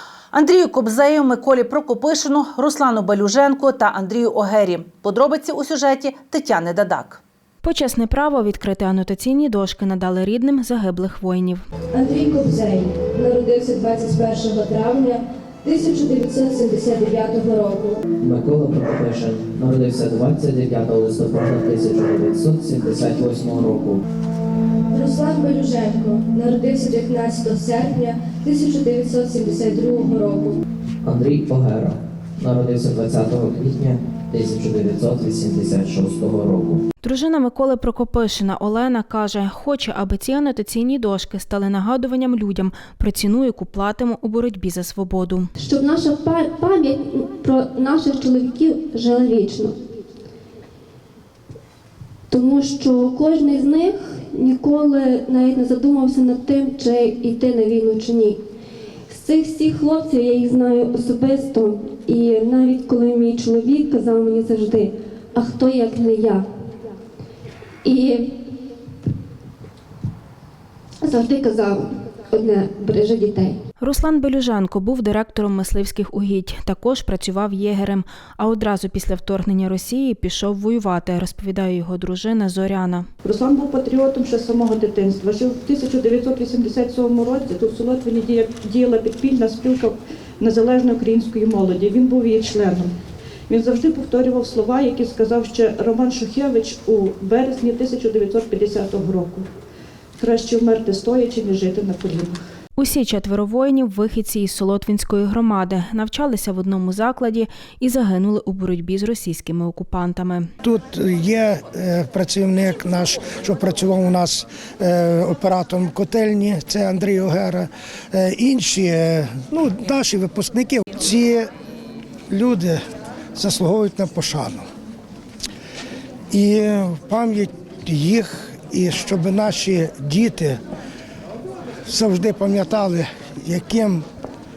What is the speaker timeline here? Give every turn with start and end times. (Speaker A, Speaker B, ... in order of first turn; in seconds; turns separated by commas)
Speaker A: 0.3-7.2, Speaker B: 7.6-11.6, Speaker C: 11.9-18.0, Speaker D: 18.2-24.0, Speaker C: 24.9-30.6, Speaker D: 31.0-36.8, Speaker B: 37.0-45.5, Speaker E: 45.6-49.8, Speaker E: 52.3-58.4, Speaker E: 59.1-66.5, Speaker E: 67.8-68.4, Speaker E: 71.0-73.6, Speaker B: 73.8-83.1, Speaker F: 83.2-92.9, Speaker F: 93.5-99.5, Speaker F: 100.2-102.4, Speaker B: 102.8-110.5, Speaker G: 110.6-121.5, Speaker G: 122.3-122.8, Speaker G: 123.3-124.7, Speaker G: 126.3-130.6, Speaker G: 131.9-134.1